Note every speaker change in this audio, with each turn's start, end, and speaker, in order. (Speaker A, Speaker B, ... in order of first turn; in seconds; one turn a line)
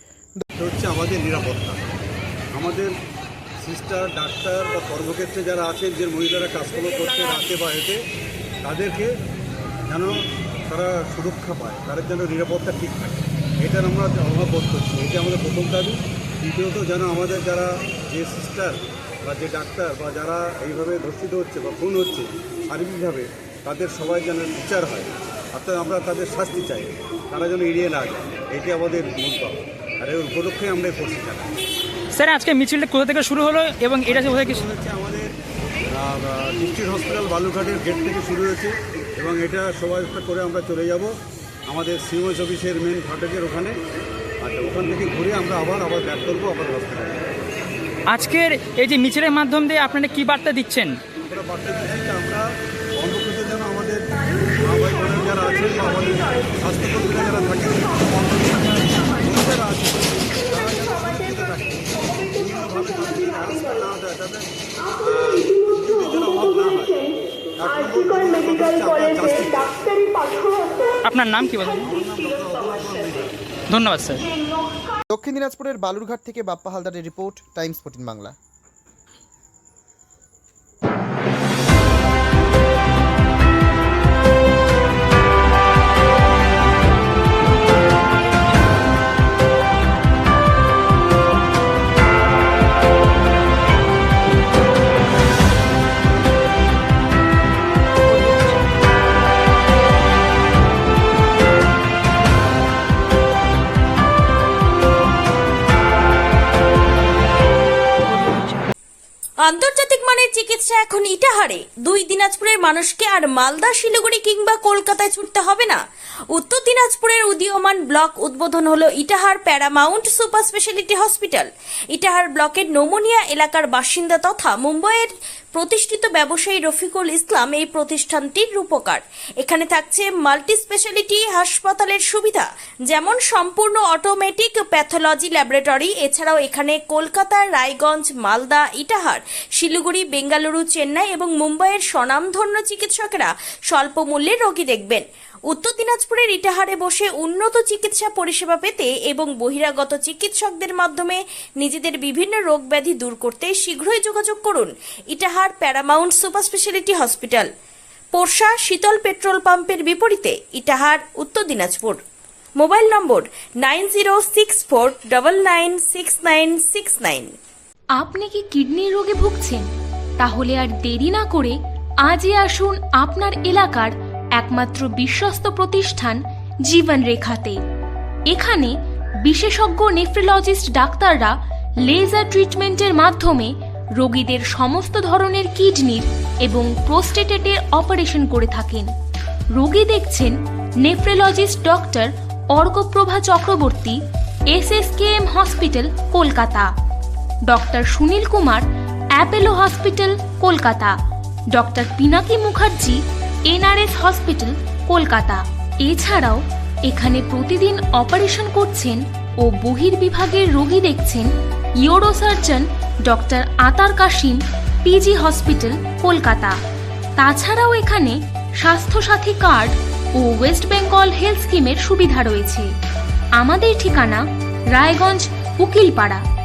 Speaker A: 0.6-1.9
Speaker A: 2.5-2.9
Speaker A: 3.6-8.0
Speaker A: 8.6-9.1
Speaker A: 9.9-10.2
Speaker A: 10.7-31.6
Speaker B: 32.1-34.5
Speaker A: 34.0-35.3
Speaker A: 35.9-41.1
Speaker A: 41.7-43.7
Speaker A: 44.4-47.2
Speaker B: 48.1-51.0
Speaker A: 51.2-70.6
Speaker B: 71.0-71.8
Speaker A: 71.8-74.1
Speaker B: 73.7-74.2
Speaker C: 75.1-78.3
Speaker D: 109.4-115.8
Speaker D: 116.3-157.5
Speaker D: 158.1-162.0
Speaker D: 162.6-167.3
Speaker E: 168.0-169.7
Speaker E: 170.2-177.6
Speaker E: 178.3-188.9
Speaker E: 189.5-196.7
Speaker E: 197.5-201.0
Speaker E: 201.5-216.6
Speaker E: 217.2-222.7
Speaker E: 223.4-226.2